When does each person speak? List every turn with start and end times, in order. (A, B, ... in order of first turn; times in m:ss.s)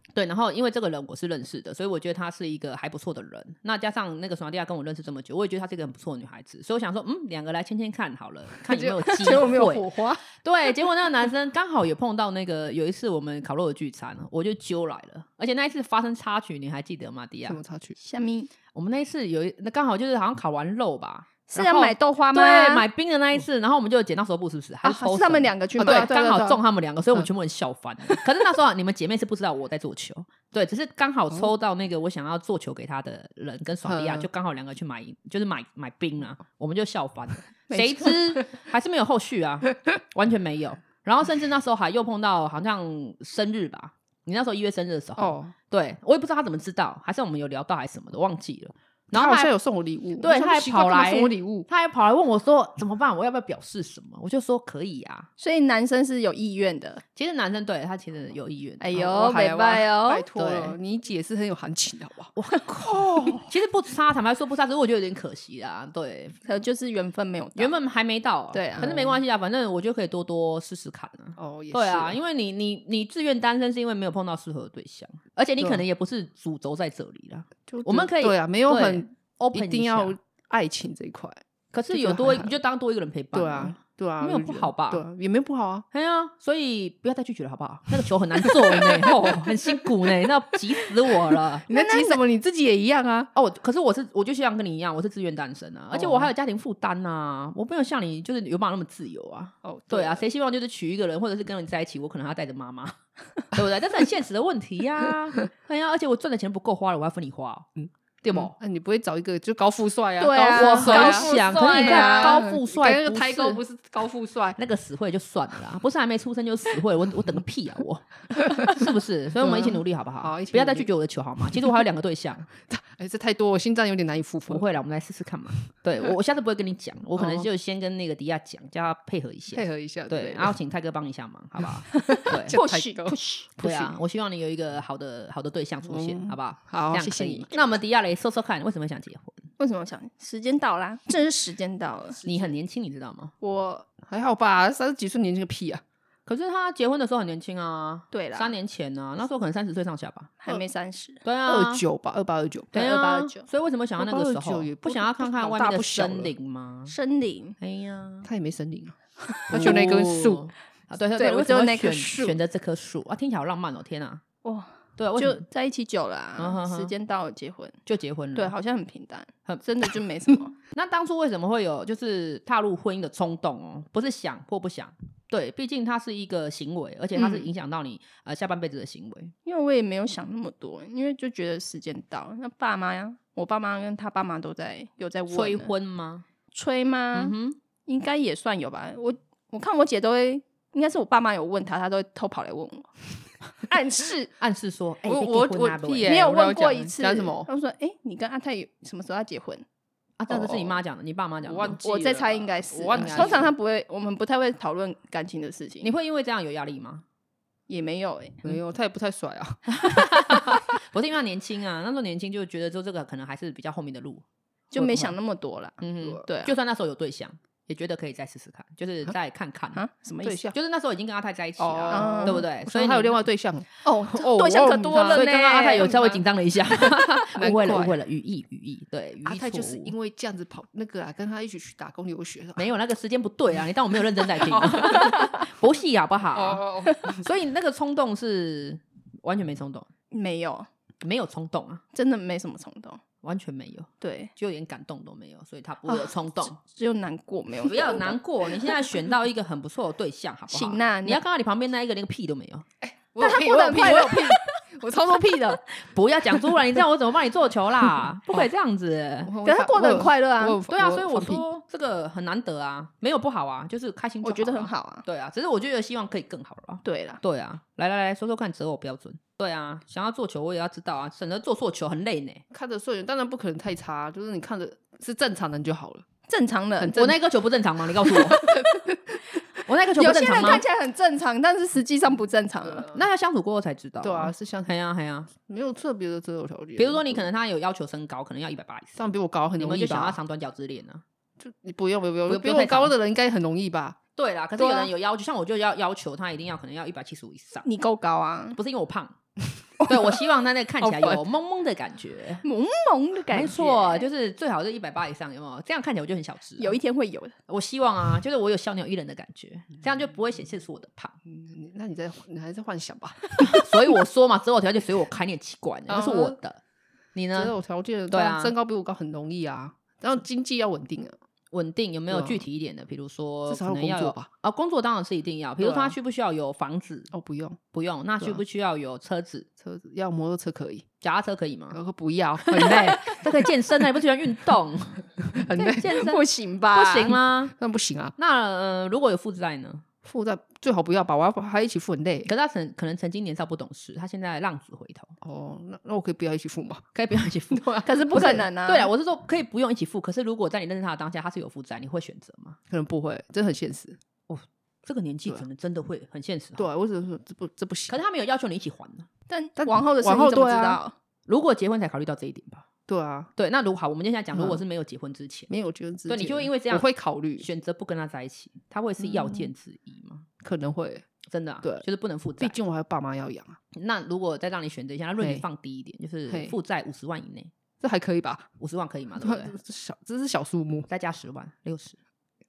0:00.1-0:17.6 A
0:08.7-0:09.7 B
0:08.8-0:10.2 C
0:17.5-0:18.0 B
0:18.0-0:18.5 C
0:18.7-0:49.5 A
0:21.5-0:22.8 C
0:21.6-0:21.9 B
0:24.8-0:26.1 C
0:25.8-0:26.6 B
0:33.8-0:34.3 B
0:37.7-0:38.2 C
0:45.2-0:45.5 B
0:49.1-0:51.7 B
0:50.2-0:55.3 A
0:55.4-0:57.0 C
0:57.1-0:59.0 A
0:58.8-1:00.2 C
0:58.9-1:03.4 B
1:00.4-1:00.7 A
1:02.4-1:06.4 A
1:06.4-1:07.7 C
1:07.6-1:20.1 A
1:08.5-1:08.9 C
1:08.8-1:09.2 B
1:11.4-1:12.2 B
1:17.7-1:22.6 B
1:21.7-1:25.0 A
1:23.3-1:25.8 B
1:25.9-1:31.6 A
1:28.4-1:29.9 B
1:31.6-1:33.3 B
1:31.7-1:32.2 C
1:33.3-1:42.9 A
1:35.9-1:36.3 B
1:39.6-1:40.2 B
1:43.5-1:47.7 A
1:47.8-1:54.6 B
1:48.2-1:48.5 A
1:50.2-1:52.4 C
1:50.5-1:53.6 A
1:54.6-2:02.5 A
1:59.3-2:00.9 B
2:02.7-2:04.6 B
2:04.5-2:12.6 A
2:07.2-2:07.5 B
2:09.5-2:10.5 B
2:11.9-2:14.0 B
2:12.0-2:13.4 C
2:13.6-2:19.4 A
2:15.9-2:17.5 B
2:19.6-2:22.2 C
2:22.2-2:22.5 B
2:22.2-2:23.3 A
2:23.4-2:23.8 C
2:24.0-2:25.8 B
2:26.2-2:30.3 A
2:28.1-2:28.5 C
2:30.4-2:31.2 C
2:31.2-2:31.8 A
2:31.4-2:32.8 B
2:32.7-2:33.4 C
2:32.7-2:36.9 A
2:34.0-2:36.3 B
2:36.9-2:37.6 C
2:37.6-2:38.3 A
2:38.2-2:40.4 B
2:39.5-2:44.2 A
2:41.2-2:42.4 C
2:44.4-2:47.8 C
2:45.0-2:45.4 A
2:46.4-2:46.9 A
2:47.8-2:48.5 A
2:48.3-2:50.5 C
2:50.7-2:59.3 A
2:59.4-3:05.7 C
3:05.3-3:06.2 A
3:06.5-3:14.3 C
3:07.1-3:07.6 A
3:14.4-3:16.2 A
3:15.0-3:17.5 B
3:16.0-3:19.6 C
3:20.2-3:21.8 A
3:20.3-3:20.8 B
3:21.4-3:23.5 B
3:21.8-3:25.9 C
3:22.9-3:23.5 A
3:25.8-3:27.0 A
3:27.7-3:28.4 C
3:28.4-3:30.1 B
3:29.7-3:34.2 A
3:34.7-3:36.5 C
3:34.8-3:35.1 B
3:35.8-3:39.8 A
3:39.8-3:40.4 C
3:40.2-3:40.6 B
3:40.5-3:43.2 A
3:41.6-3:48.0 B
3:41.9-3:42.4 C
3:43.8-3:46.0 C
3:45.0-3:49.9 A
3:49.2-3:52.7 B
3:52.6-3:59.9 A
3:54.4-3:55.3 B
3:56.3-3:57.2 B
4:00.1-4:00.7 C
4:01.0-4:01.8 A
4:01.9-4:03.0 C
4:03.2-4:06.6 A
4:04.0-4:04.3 C
4:05.9-4:08.8 C
4:07.6-4:12.6 A
4:10.5-4:11.2 C
4:12.8-4:15.6 B
4:13.2-4:14.6 C
4:15.7-4:19.3 A
4:18.0-4:18.4 B
4:19.2-4:21.4 B
4:19.4-4:20.6 C
4:20.7-4:32.4 A
4:24.2-4:25.0 C
4:26.8-4:27.2 C
4:32.5-4:36.0 B
4:36.3-4:37.0 C
4:36.8-4:37.2 B
4:36.9-4:38.4 A
4:38.1-4:38.8 B
4:39.6-4:40.6 A
4:40.0-4:42.9 C
4:42.6-4:43.0 B
4:42.9-4:45.3 A
4:44.0-4:44.7 B
4:45.3-4:47.2 B
4:46.8-4:49.0 A
4:49.0-4:50.2 B
4:49.6-4:51.0 A
4:51.4-4:54.0 B
4:52.3-4:52.9 A
4:54.2-4:57.6 A
4:54.6-4:54.9 C
4:57.6-4:58.6 C
4:58.6-4:59.2 A
4:59.8-5:02.4 A
5:00.8-5:01.2 B
5:02.4-5:04.1 C
5:03.3-5:06.8 A
5:06.6-5:07.4 C
5:07.5-5:11.2 A
5:11.2-5:13.6 B
5:13.4-5:16.6 A
5:15.9-5:16.4 B
5:17.1-5:17.5 A
5:17.3-5:21.2 B
5:18.1-5:18.5 A
5:21.5-5:27.1 A
5:22.1-5:22.4 B
5:23.5-5:24.3 B
5:25.6-5:26.0 B
5:27.1-5:27.6 B
5:27.7-5:29.5 A
5:29.6-5:30.8 B
5:31.0-5:31.8 A
5:31.7-5:33.3 B
5:32.4-5:37.5 A
5:35.3-5:36.0 B
5:35.6-5:37.2 C
5:37.6-5:38.1 B
5:38.2-5:39.8 A
5:40.0-5:42.3 B
5:42.2-5:45.1 A
5:45.2-5:46.9 B
5:46.9-5:52.6 A
5:47.5-5:48.4 B
5:47.8-5:48.9 C
5:52.7-5:54.0 B
5:54.3-5:56.6 A
5:56.6-5:58.0 B
5:57.9-5:59.1 A
5:59.3-6:00.9 C
5:59.6-6:00.8 B
6:01.3-6:02.6 A
6:02.9-6:03.3 B
6:03.4-6:05.5 A
6:04.3-6:04.6 B
6:05.5-6:07.5 B
6:06.1-6:06.9 A
6:07.4-6:10.2 A
6:09.0-6:09.5 B
6:10.4-6:11.0 B
6:11.3-6:12.6 A
6:12.4-6:13.6 B
6:13.7-6:17.5 A
6:15.2-6:15.4 B
6:16.3-6:16.5 B
6:17.8-6:18.5 B
6:18.6-6:19.5 A
6:19.2-6:20.9 B
6:20.9-6:22.0 A